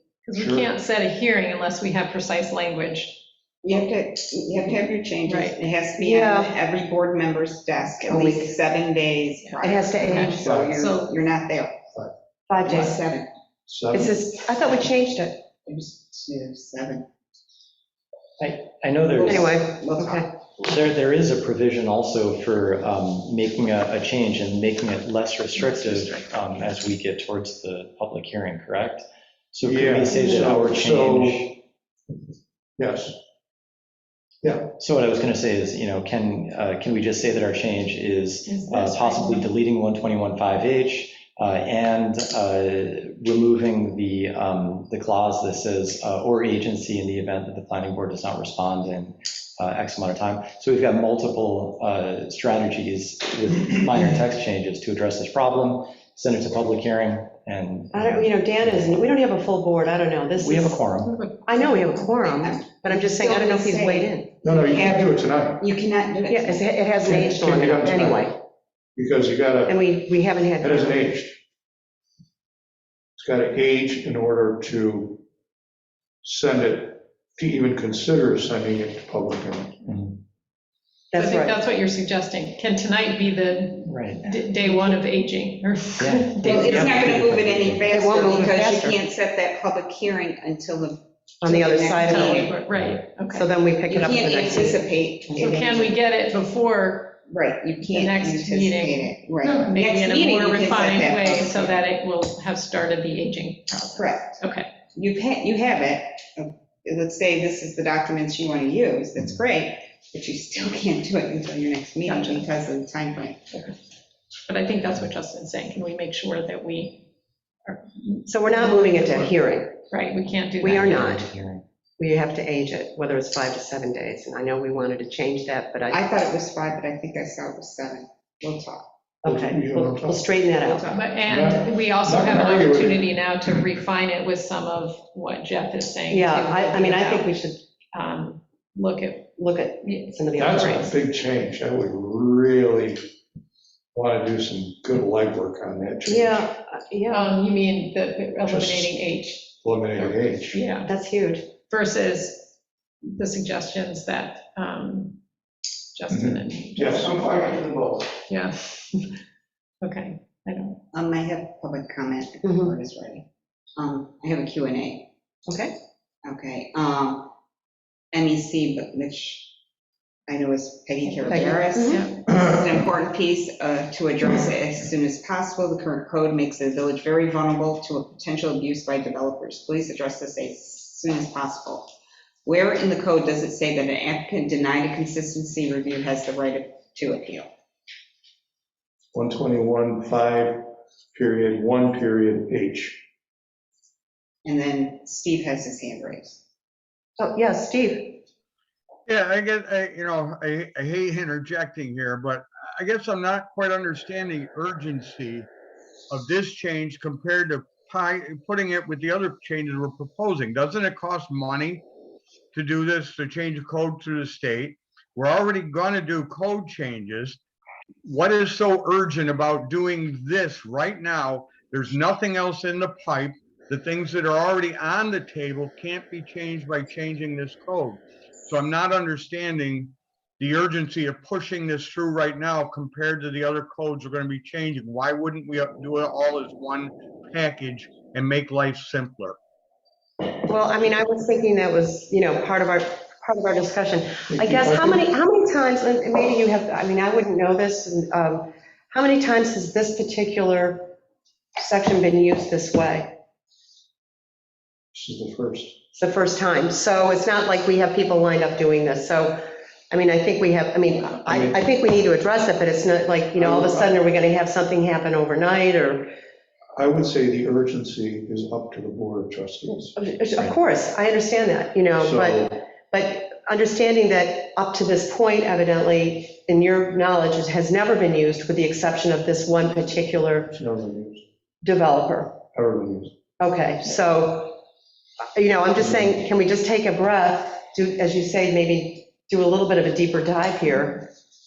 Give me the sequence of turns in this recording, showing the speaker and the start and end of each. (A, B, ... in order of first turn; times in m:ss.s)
0:00.3-0:03.2 A
0:00.3-0:00.7 B
0:03.6-0:11.8 C
0:05.3-0:05.6 A
0:06.0-0:06.5 D
0:08.0-0:08.5 D
0:09.4-0:11.2 A
0:09.6-0:10.3 D
0:10.4-0:10.8 B
0:12.5-0:13.0 D
0:12.6-0:13.3 C
0:13.7-0:14.1 B
0:13.9-0:15.4 D
0:15.6-0:17.1 C
0:18.4-0:19.6 E
0:19.2-0:20.3 C
0:19.3-0:20.3 D
0:20.6-0:31.6 E
0:25.6-0:26.2 A
0:29.6-0:31.5 B
0:32.8-0:33.2 B
0:34.4-0:34.7 B
0:34.8-0:59.0 E
0:38.5-0:39.5 A
0:57.9-1:00.8 D
1:00.4-1:01.2 E
1:01.0-1:02.0 A
1:01.4-1:04.3 D
1:02.0-1:07.5 C
1:04.4-1:05.6 B
1:06.3-1:08.4 D
1:07.0-1:08.4 B
1:09.0-1:09.9 B
1:09.7-1:11.0 D
1:10.6-1:11.4 B
1:13.2-1:15.2 B
1:16.2-1:19.8 B
1:19.9-1:20.2 E
1:21.1-1:21.6 D
1:21.2-1:27.0 A
1:23.9-1:24.4 E
1:26.0-1:27.9 E
1:26.4-1:32.6 C
1:27.9-1:29.0 D
1:31.4-1:32.5 D
1:32.0-1:33.5 A
1:32.7-1:33.0 E
1:33.3-1:35.4 D
1:33.9-1:36.0 C
1:35.4-1:37.2 A
1:37.3-1:41.8 C
1:37.8-1:44.7 A
1:44.0-1:44.4 C
1:44.9-1:53.5 C
1:52.0-1:52.5 A
1:53.5-1:53.8 A
1:54.5-1:57.0 A
1:57.7-1:59.3 A
1:58.3-1:59.8 D
1:59.9-2:01.0 A
2:00.6-2:01.2 D
2:00.6-2:01.6 E
2:02.0-2:06.0 D
2:05.9-2:08.9 C
2:09.2-2:10.8 D
2:09.2-2:10.4 B
2:10.6-2:11.2 C
2:10.9-2:17.3 A
2:11.2-2:13.0 B
2:16.1-2:17.6 D
2:17.9-2:20.2 A
2:19.4-2:20.9 D
2:20.4-2:23.0 B
2:23.9-2:26.4 B
2:26.1-2:27.3 D
2:27.1-2:30.9 A
2:28.5-2:28.9 B
2:29.6-2:30.6 B
2:30.8-2:31.5 D
2:31.7-2:35.2 A
2:35.9-2:37.5 A
2:36.1-2:38.2 B
2:38.3-2:39.2 A
2:39.8-2:40.8 A
2:40.9-2:45.1 C
2:42.4-2:42.8 D
2:45.5-2:45.7 D
2:46.2-2:47.3 C
2:48.1-2:49.6 C
2:50.3-3:01.9 C
2:51.3-2:52.1 D
2:51.9-2:52.1 A
3:02.4-3:07.5 C
3:09.1-3:13.0 B
3:14.4-3:16.4 C
3:17.2-3:18.2 D
3:19.1-3:25.5 F
3:26.1-3:31.8 F
3:32.5-3:37.4 F
3:38.0-3:59.4 F
4:00.5-4:11.0 D
4:04.3-4:05.0 B
4:11.6-4:13.2 D
4:14.9-4:15.8 B
4:16.0-4:26.1 D
4:21.3-4:21.6 B
4:23.4-4:24.0 B
4:26.8-4:29.9 B
4:30.0-4:40.5 D
4:32.0-4:32.6 B
4:40.5-4:41.2 B
4:41.6-4:42.4 D
4:42.5-4:43.1 B
4:43.4-4:44.6 D
4:45.4-4:51.1 D
4:45.8-4:46.1 B